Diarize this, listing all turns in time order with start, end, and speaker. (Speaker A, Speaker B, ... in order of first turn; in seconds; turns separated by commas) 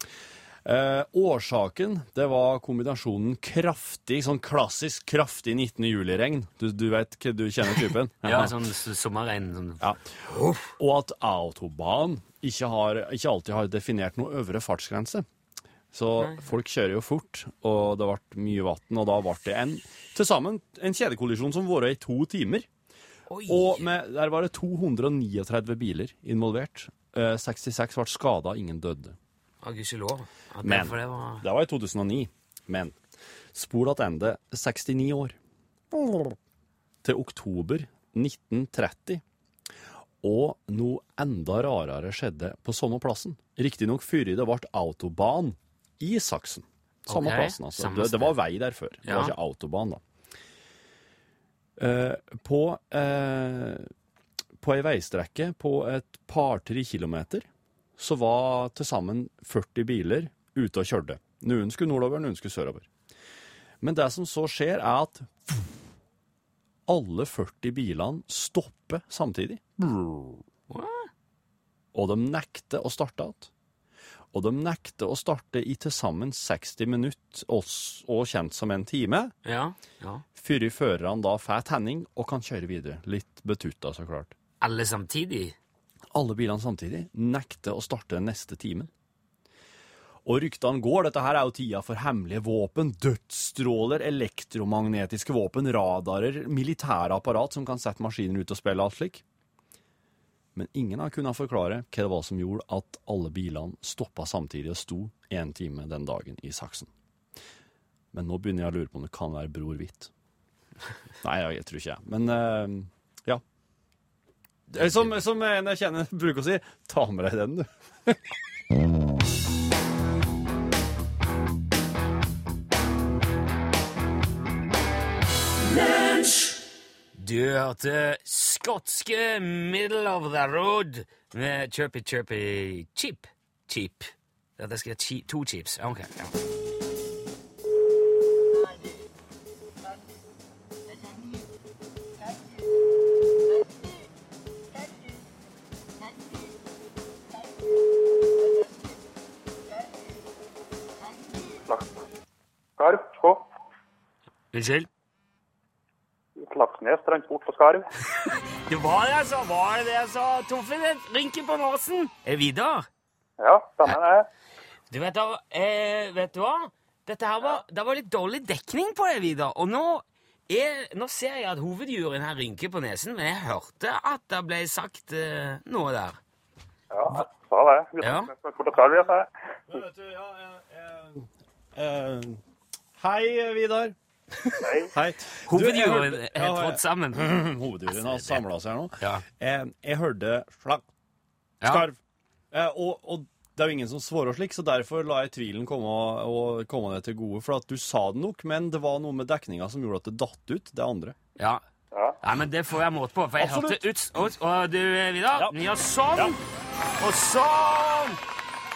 Speaker A: 0.6-8.5, Speaker B: 8.2-10.7, Speaker A: 10.8-15.2, Speaker A: 15.9-22.7, Speaker B: 23.3-23.9, Speaker A: 23.5-29.1, Speaker B: 29.6-31.4, Speaker A: 30.6-33.0, Speaker A: 33.5-35.4, Speaker A: 35.9-36.4, Speaker A: 37.0-39.2, Speaker A: 40.2-50.0, Speaker B: 47.1-48.3, Speaker B: 49.0-49.3, Speaker A: 51.8-53.9, Speaker A: 54.6-62.9, Speaker A: 63.8-65.7, Speaker A: 66.9-70.4, Speaker B: 70.7-71.1, Speaker A: 71.9-73.5, Speaker A: 74.3-79.3, Speaker B: 79.4-80.2, Speaker A: 80.3-84.3, Speaker B: 84.6-85.5, Speaker A: 86.1-88.9, Speaker A: 90.2-99.2, Speaker A: 100.5-106.9, Speaker A: 108.1-110.1, Speaker A: 111.2-113.4, Speaker A: 114.7-118.2, Speaker B: 127.1-136.3, Speaker C: 152.8-153.4, Speaker B: 154.5-154.9, Speaker C: 156.4-157.8, Speaker B: 158.2-162.9, Speaker C: 163.4-164.3, Speaker B: 164.9-176.2, Speaker C: 176.9-179.3, Speaker B: 178.0-178.3, Speaker A: 179.7-182.4, Speaker A: 183.0-183.9, Speaker C: 184.6-184.9, Speaker A: 184.9-190.8, Speaker B: 185.4-187.4, Speaker B: 187.9-188.4, Speaker B: 189.0-189.2, Speaker B: 191.6-191.9, Speaker A: 191.6-192.0, Speaker A: 192.5-201.2, Speaker B: 202.2-206.4, Speaker A: 203.4-203.8, Speaker B: 207.0-208.2